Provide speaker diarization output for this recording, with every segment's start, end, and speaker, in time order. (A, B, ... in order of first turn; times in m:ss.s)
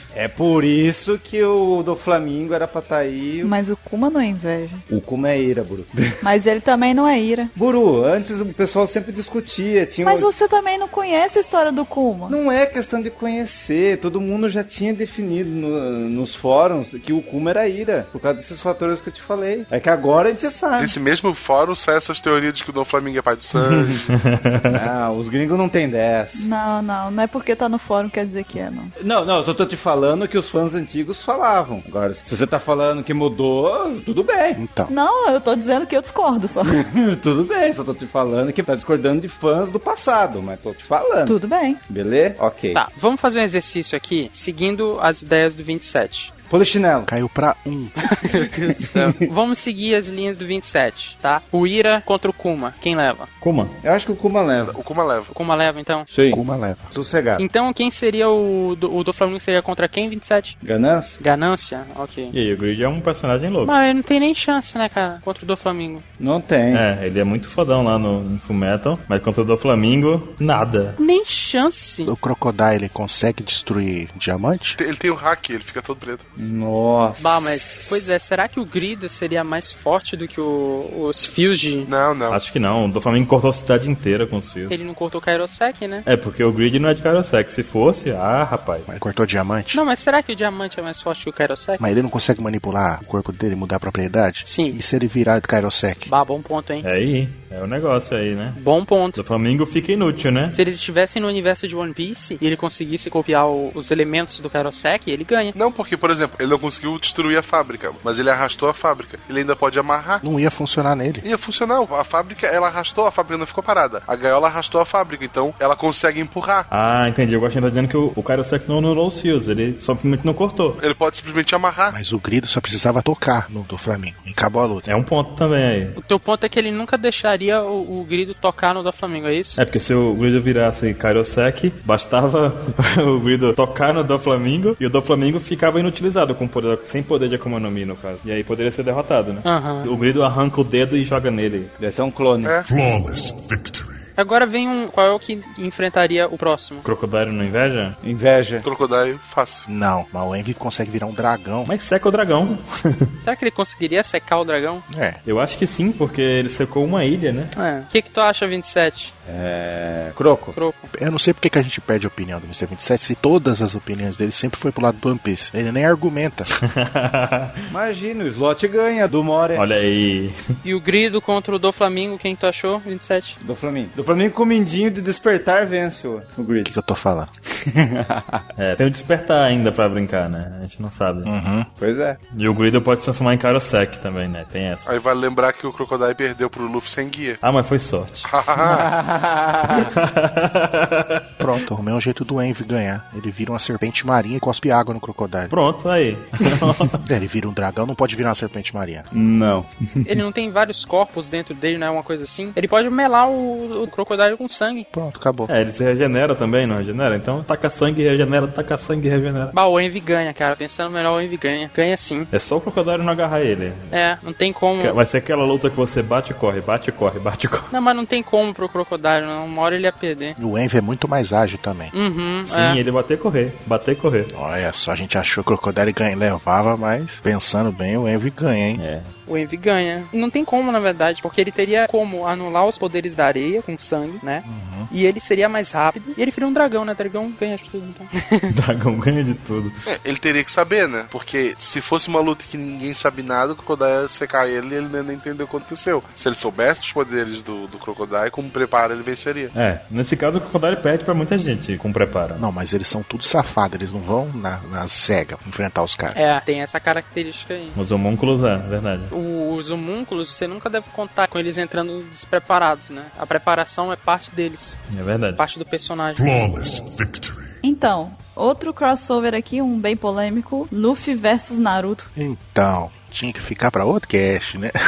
0:00.1-0:03.5 A
0:03.4-0:04.8 B
0:04.9-0:06.2 A
0:06.2-0:07.5 B
0:07.5-0:10.3 A
0:10.0-0:12.4 B
0:12.3-0:21.0 A
0:20.8-0:24.1 C
0:23.6-0:23.9 A
0:24.1-0:24.8 D
0:24.7-0:26.5 A
0:26.4-0:28.9 B
0:29.0-0:34.6 A
0:34.6-0:34.9 E
0:34.9-0:36.8 B
0:36.6-0:41.3 A
0:41.2-0:41.8 B
0:41.9-0:42.8 A
0:42.7-0:46.3 F
0:46.5-0:47.1 A
0:47.1-0:47.9 E
0:48.2-0:53.3 F
0:53.4-0:53.8 D
0:53.8-0:54.8 A
0:54.7-0:55.3 C
0:55.3-0:56.1 F
0:56.1-0:57.4 A
0:56.3-0:56.9 E
0:57.4-1:00.6 F
1:00.6-1:01.2 A
1:01.2-1:02.3 F
1:02.3-1:03.7 D
1:03.6-1:06.0 F
1:06.2-1:06.9 A
1:06.7-1:11.0 D
1:11.0-1:12.1 F
1:12.0-1:14.8 E
1:14.8-1:16.3 C
1:16.4-1:18.1 A
1:17.2-1:21.9 F
1:21.8-1:22.4 C
1:22.3-1:24.8 D
1:24.7-1:26.0 F
1:26.0-1:28.9 D
1:28.9-1:29.8 E
1:29.7-1:31.8 F
1:31.8-1:36.1 E
1:34.4-1:34.8 F
1:36.1-1:36.8 F
1:36.8-1:38.6 D
1:38.6-1:39.2 F
1:39.2-1:40.6 D
1:40.5-1:45.5 F
1:45.5-1:50.2 C
1:50.2-1:51.2 E
1:51.2-1:56.7 C
1:56.7-2:00.8 D
2:00.8-2:01.9 C
2:01.9-2:04.9 E
2:04.8-2:06.0 D
2:06.0-2:09.6 F
2:09.6-2:21.7 D
2:19.4-2:19.9 F
2:21.8-2:22.6 A
2:22.6-2:24.1 G
2:24.2-2:26.8 F
2:26.8-2:28.0 D
2:28.0-2:28.6 A
2:28.6-2:29.7 C
2:29.7-2:31.7 E
2:31.7-2:33.0 D
2:33.2-2:34.8 F
2:34.9-2:35.2 E
2:35.2-2:37.5 D
2:37.5-2:39.1 F
2:39.2-2:40.6 A
2:40.5-2:40.9 F
2:40.9-2:46.5 E
2:46.6-2:47.6 D
2:47.7-2:49.6 A
2:49.5-2:50.4 D
2:50.6-2:53.4 F
2:53.4-2:56.7 A
2:56.6-2:57.3 E
2:57.7-2:58.4 A
2:58.6-3:01.3 D
3:01.2-3:01.7 E
3:01.8-3:02.2 A
3:02.3-3:04.9 D
3:04.8-3:07.4 C
3:07.4-3:08.3 D
3:08.2-3:08.9 C
3:08.6-3:09.9 A
3:09.7-3:11.4 D
3:11.4-3:15.5 E
3:15.5-3:17.0 D
3:17.0-3:19.1 E
3:19.1-3:19.7 A
3:20.0-3:24.9 F
3:24.9-3:25.5 E
3:25.5-3:29.5 D
3:29.5-3:32.3 F
3:32.3-3:33.9 D
3:33.9-3:35.0 F
3:34.8-3:37.7 D
3:37.7-3:40.4 F
3:40.4-3:41.9 E
3:41.9-3:42.8 F
3:42.4-3:44.3 D
3:44.3-3:48.8 E
3:48.8-3:49.1 D
3:49.3-3:58.5 F
3:54.4-3:54.9 E
3:58.5-3:59.8 D
3:59.8-4:09.5 C
4:09.5-4:12.4 D
4:12.4-4:16.2 E
4:16.1-4:17.8 F
4:17.7-4:19.1 D
4:19.1-4:24.8 F
4:24.9-4:25.4 D
4:25.4-4:26.2 F
4:26.1-4:27.5 G
4:27.6-4:32.1 B
4:32.2-4:34.7 E